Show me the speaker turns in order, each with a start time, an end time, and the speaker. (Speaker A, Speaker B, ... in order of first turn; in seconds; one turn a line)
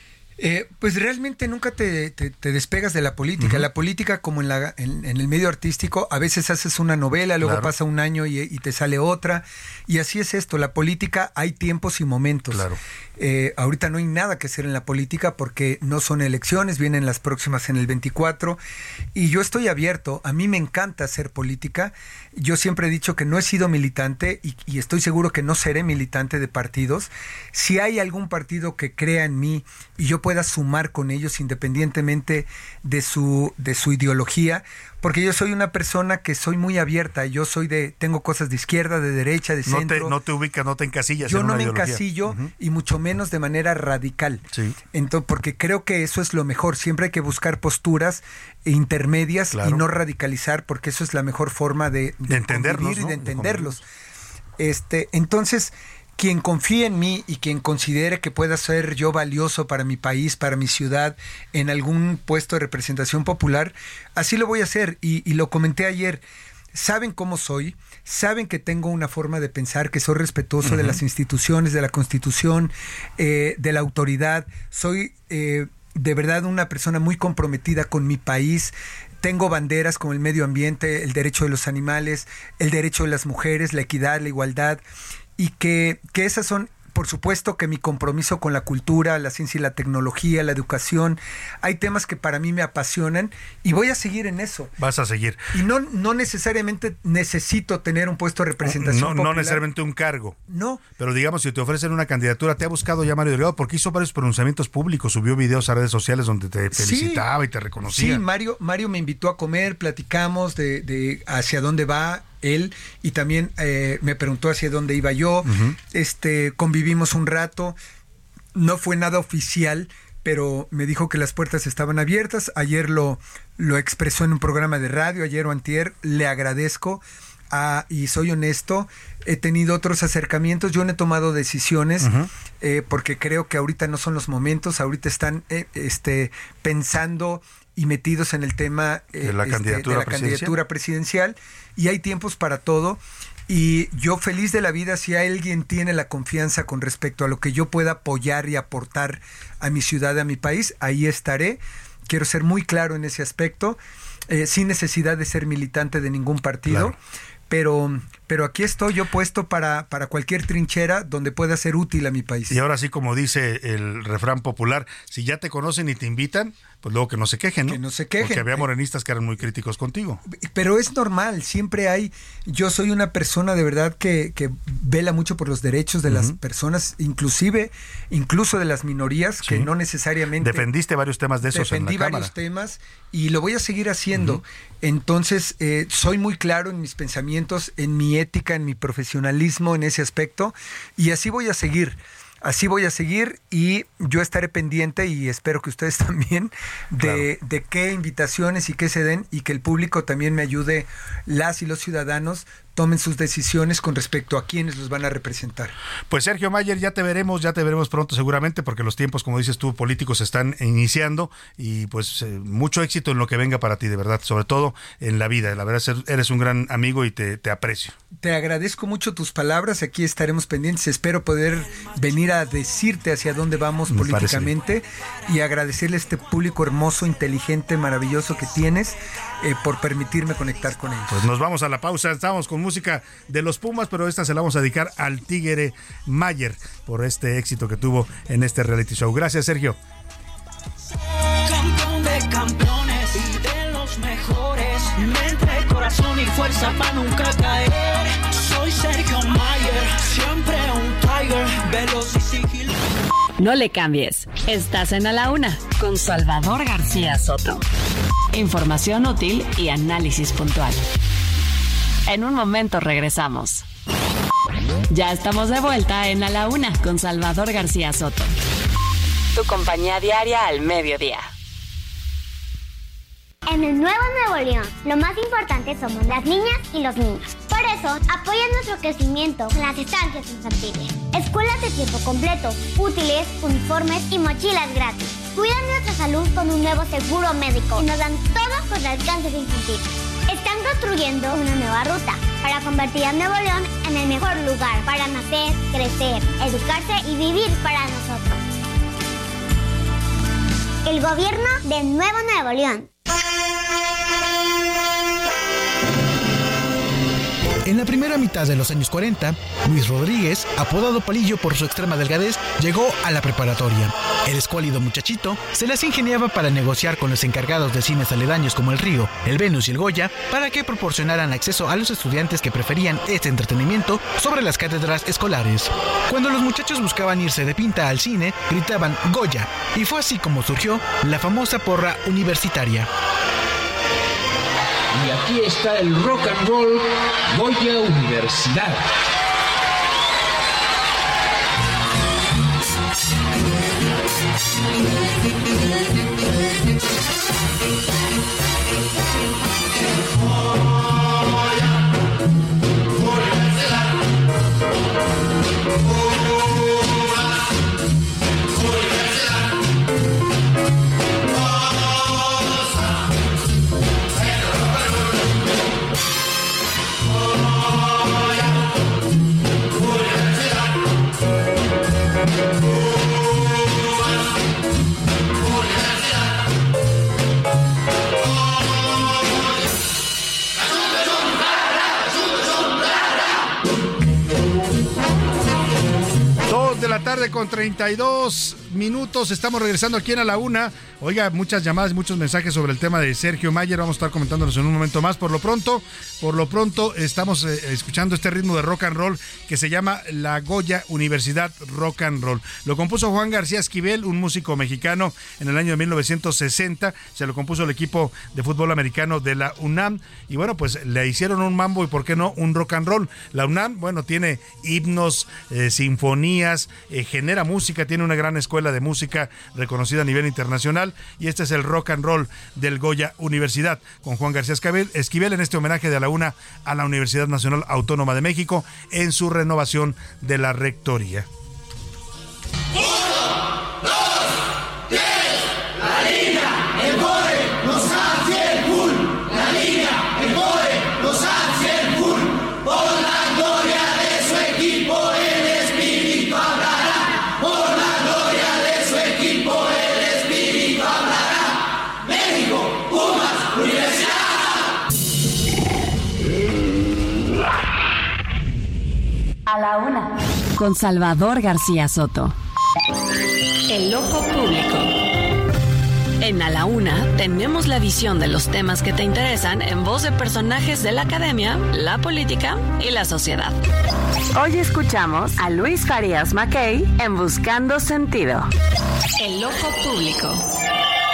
Speaker A: 0.4-18.6
Speaker B: 3.4-3.6
Speaker B: 7.4-7.7
Speaker B: 12.5-12.8
Speaker A: 19.1-40.1
Speaker B: 39.6-42.5
Speaker A: 41.2-53.8
Speaker B: 49.5-49.8
Speaker B: 52.3-53.8
Speaker A: 54.6-66.2
Speaker A: 66.7-84.8
Speaker B: 70.6-71.0
Speaker A: 85.4-94.7
Speaker B: 94.8-95.5
Speaker A: 95.5-99.6
Speaker B: 98.6-100.3
Speaker A: 100.5-100.8
Speaker B: 101.0-108.2
Speaker A: 106.7-107.2
Speaker A: 107.8-117.7
Speaker B: 115.4-115.7
Speaker A: 118.5-132.1
Speaker B: 132.0-132.3
Speaker A: 132.6-156.9
Speaker B: 139.2-140.5
Speaker B: 156.7-156.9
Speaker A: 157.5-162.6
Speaker B: 162.5-170.2
Speaker A: 167.7-168.7
Speaker A: 170.3-180.7
Speaker B: 176.1-176.3
Speaker B: 180.4-182.3
Speaker A: 181.5-205.7
Speaker B: 184.1-184.4
Speaker B: 197.0-197.2
Speaker B: 206.1-217.9
Speaker A: 218.2-231.2
Speaker B: 223.9-224.5
Speaker B: 231.1-239.8
Speaker C: 241.4-252.7
Speaker D: 253.4-257.6
Speaker D: 258.3-260.8
Speaker D: 262.1-263.6
Speaker D: 264.9-268.3
Speaker D: 269.3-271.3
Speaker E: 273.4-298.4
Speaker E: 300.8-302.9
Speaker F: 307.6-332.9
Speaker G: 334.9-338.8
Speaker B: 386.5-431.3
Speaker D: 459.5-462.3
Speaker D: 463.7-464.9
Speaker D: 466.2-473.6
Speaker D: 474.3-478.5
Speaker D: 479.2-480.4